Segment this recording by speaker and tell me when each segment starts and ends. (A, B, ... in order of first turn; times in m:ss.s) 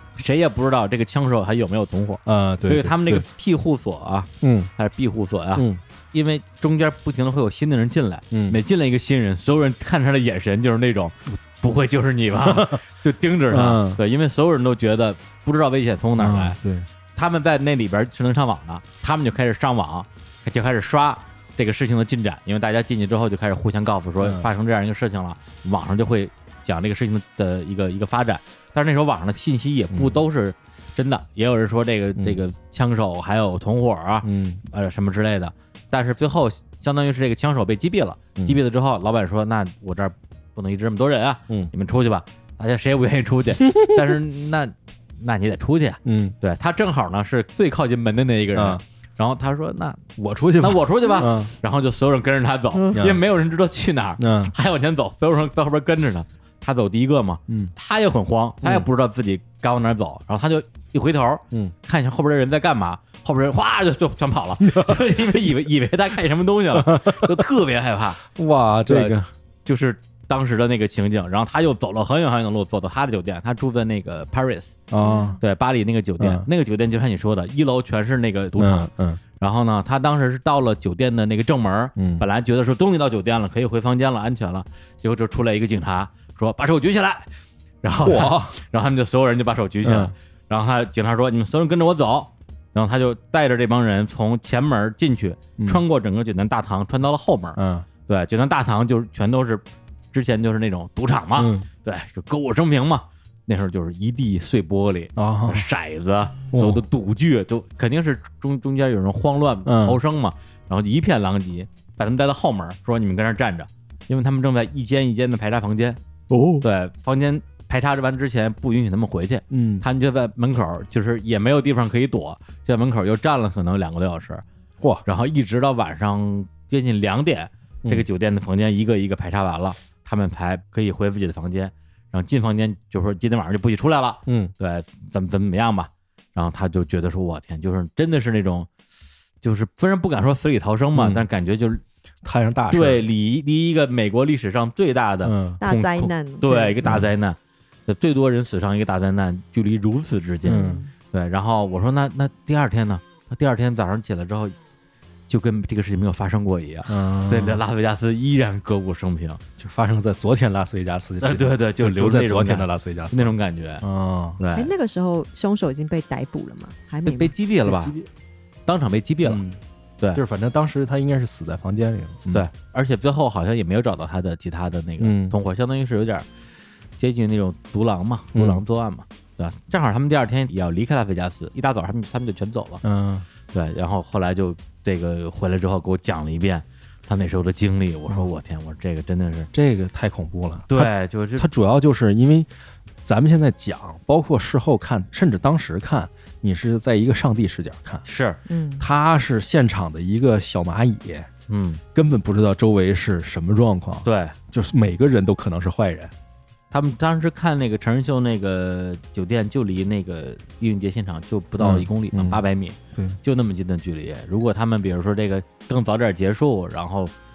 0:00.2-0:16.6 A
0:02.2-0:03.2 B
0:04.4-0:04.7 B
0:05.6-0:05.8 B
0:08.3-0:08.6 B
0:12.4-0:12.8 B
0:13.5-0:14.0 B
0:16.2-0:16.9 B
0:17.1-0:50.0 A
0:24.2-0:24.5 B
0:29.9-0:30.2 B
0:32.2-0:32.4 B
0:34.2-0:34.6 B
0:43.6-0:44.0 B
0:46.0-0:46.4 B
0:48.5-0:48.8 B
0:50.2-0:51.5 B
0:50.6-1:08.2 A
0:52.9-0:53.2 B
0:54.2-0:54.5 B
0:57.5-0:57.7 B
0:58.6-0:58.9 B
1:04.6-1:05.0 B
1:06.7-1:07.4 B
1:08.3-1:09.3 B
1:08.9-1:14.8 A
1:14.9-1:15.4 B
1:15.0-1:15.4 C
1:15.4-1:27.3 A
1:16.2-1:16.5 B
1:18.6-1:19.2 B
1:22.0-1:22.2 B
1:27.8-1:56.0 A
1:28.0-1:28.6 B
1:29.8-1:30.1 B
1:37.6-1:37.8 B
1:41.4-1:41.7 B
1:45.2-1:45.6 B
1:46.5-1:46.8 B
1:49.6-1:50.0 B
1:56.3-1:56.6 B
1:56.6-2:04.4 A
1:59.5-1:59.8 B
2:05.0-2:18.7 A
2:14.2-2:14.5 B
2:19.4-2:21.8 A
2:20.9-2:21.2 B
2:22.2-2:23.0 B
2:22.7-2:34.6 A
2:25.2-2:25.6 B
2:25.6-2:26.8 C
2:30.4-2:30.8 B
2:30.4-2:30.9 C
2:35.3-2:39.4 A
2:36.9-2:37.6 B
2:39.6-2:44.4 B
2:41.2-2:43.8 A
2:44.4-2:44.7 A
2:44.5-2:47.3 C
2:47.0-2:47.9 A
2:47.6-2:48.1 B
2:48.7-2:49.4 A
2:49.2-2:49.6 B
2:50.1-2:52.5 B
2:52.3-2:56.2 A
2:55.0-2:55.4 B
2:57.0-3:02.8 A
2:58.3-2:58.6 B
3:02.8-3:03.2 B
3:03.5-3:09.5 A
3:09.5-3:12.5 B
3:10.7-3:11.5 A
3:13.0-3:18.0 B
3:18.0-3:18.4 A
3:18.5-3:18.8 C
3:18.8-3:21.3 B
3:21.5-3:21.8 A
3:21.9-3:26.1 B
3:24.0-3:24.3 A
3:26.7-3:37.1 A
3:31.6-3:32.4 B